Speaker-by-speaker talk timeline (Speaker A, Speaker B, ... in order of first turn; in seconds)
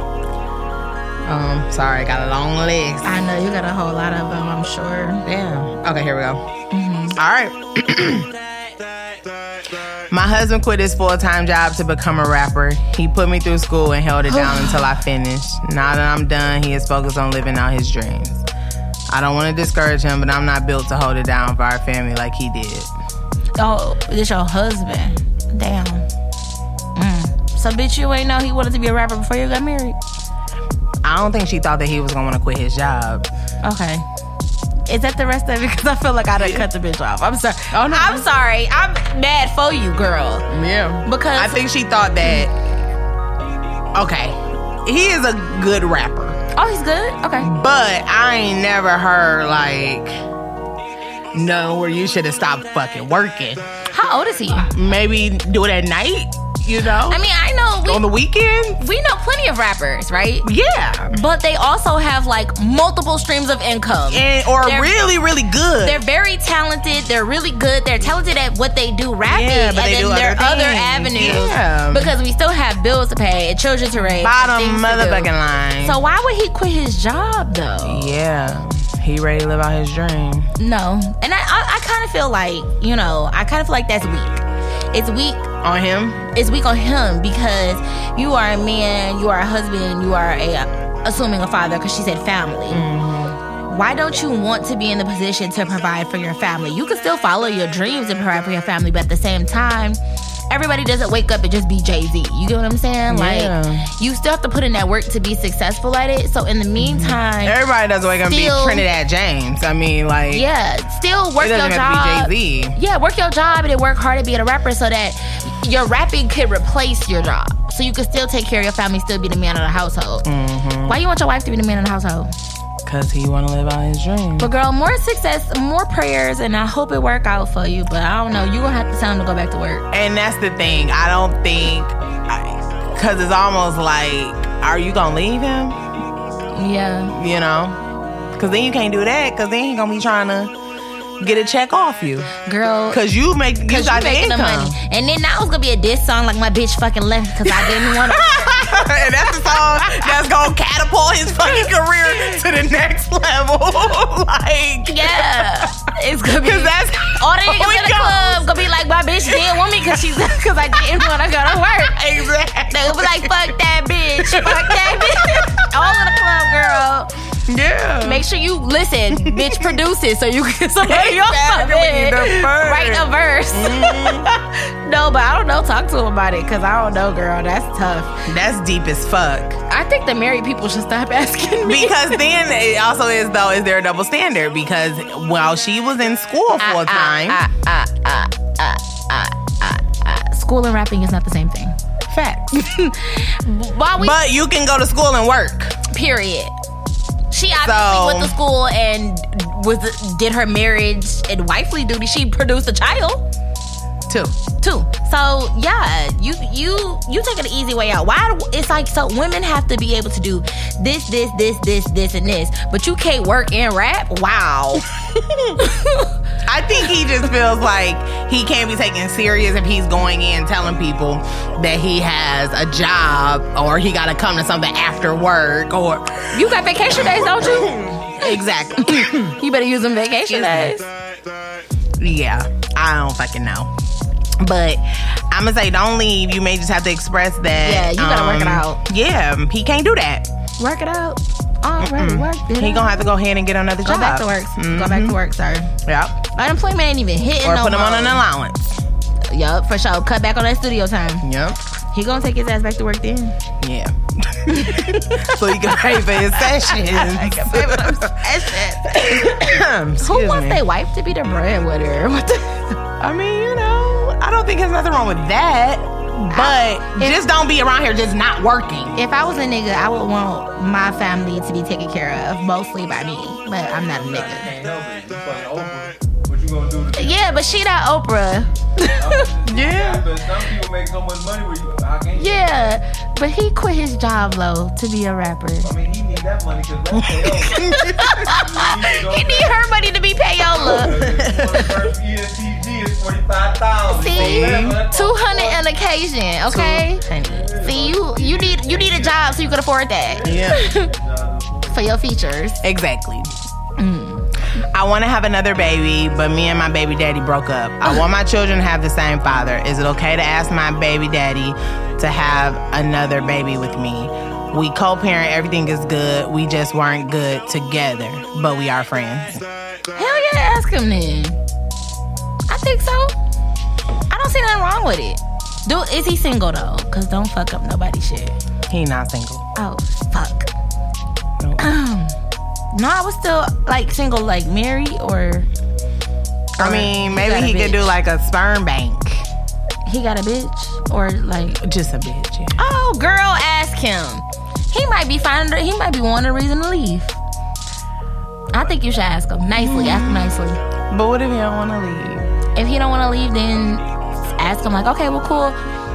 Speaker A: 1.2-3.2, 5.2-6.4, 7.2-8.3, 10.1-18.4, 19.1-22.9, 31.0-33.3, 36.4-36.7, 37.7-38.3, 40.5-42.5, 44.0-46.4, 47.4-50.1, 51.3-53.6, 54.7-57.2, 57.9-58.8, 60.4-61.2, 64.1-66.0, 69.3-72.1, 73.9-76.0, 77.8-80.5, 85.6-86.2, 92.7-93.4, 103.1-103.9, 106.8-110.5, 111.4-112.8, 120.2-121.0, 122.8-124.5, 129.9-135.8, 137.1-137.8, 138.3-140.5, 141.2-142.3, 142.9-144.8, 147.4-155.7, 156.4-158.7, 159.2-166.7, 167.5-168.2, 169.1-169.8, 170.8-174.3, 178.3-179.6, 181.6-187.4, 192.1-192.7, 194.0-195.8, 197.6-198.3, 204.1-204.4, 216.5-226.4, 227.0-229.4, 230.3-230.7, 232.0-233.7, 234.4-240.3, 241.8-245.2, 245.8-246.2, 247.4-248.8, 251.2-251.6, 253.6-260.6, 263.0-269.0, 279.5-280.1, 287.1-288.2, 291.2-291.5, 294.1-294.8, 296.5-296.9, 300.2-300.7, 302.6-303.3, 304.6-319.4, 328.7-329.4, 331.4-331.6, 336.6-339.3, 341.6-342.6, 349.6-350.4, 350.9-352.3
Speaker B: 3.0-5.2, 6.7-7.2, 14.3-14.9, 23.6-26.1, 26.9-30.0, 33.6-34.0, 34.9-40.5, 41.0-41.7, 46.5-47.5, 53.9-54.7, 57.1-58.1, 58.8-60.5, 61.1-64.9, 65.8-78.2, 80.6-85.5, 86.3-92.8, 93.6-107.6, 108.3-108.9, 110.3-120.3, 120.8-122.3, 124.4-129.9, 136.5-137.2, 142.4-143.0, 143.7-150.2, 154.9-162.1, 162.7-167.1, 168.0-178.2, 179.7-182.2, 186.6-191.8, 192.6-194.2, 195.9-196.5, 197.3-203.2, 204.6-214.9, 215.5-216.1, 226.3-230.9, 237.6-238.8, 240.6-243.2, 243.8-245.7, 246.3-248.2, 249.3-251.3, 251.9-253.4, 254.5-262.8, 266.3-267.2, 268.9-274.5, 277.0-279.2, 282.2-285.7, 287.5-291.0, 293.9-300.9, 301.7-302.6, 303.8-304.3, 319.9-321.4, 322.5-323.1, 324.1-328.4, 329.6-330.5, 331.6-332.2, 332.7-335.5, 336.6-337.9, 339.9-341.6, 342.6-347.2, 348.5-350.6, 352.6-355.6
Speaker C: 273.6-277.6, 278.8-282.7, 285.6-289.6, 290.6-295.7, 297.1-299.5, 300.1-301.9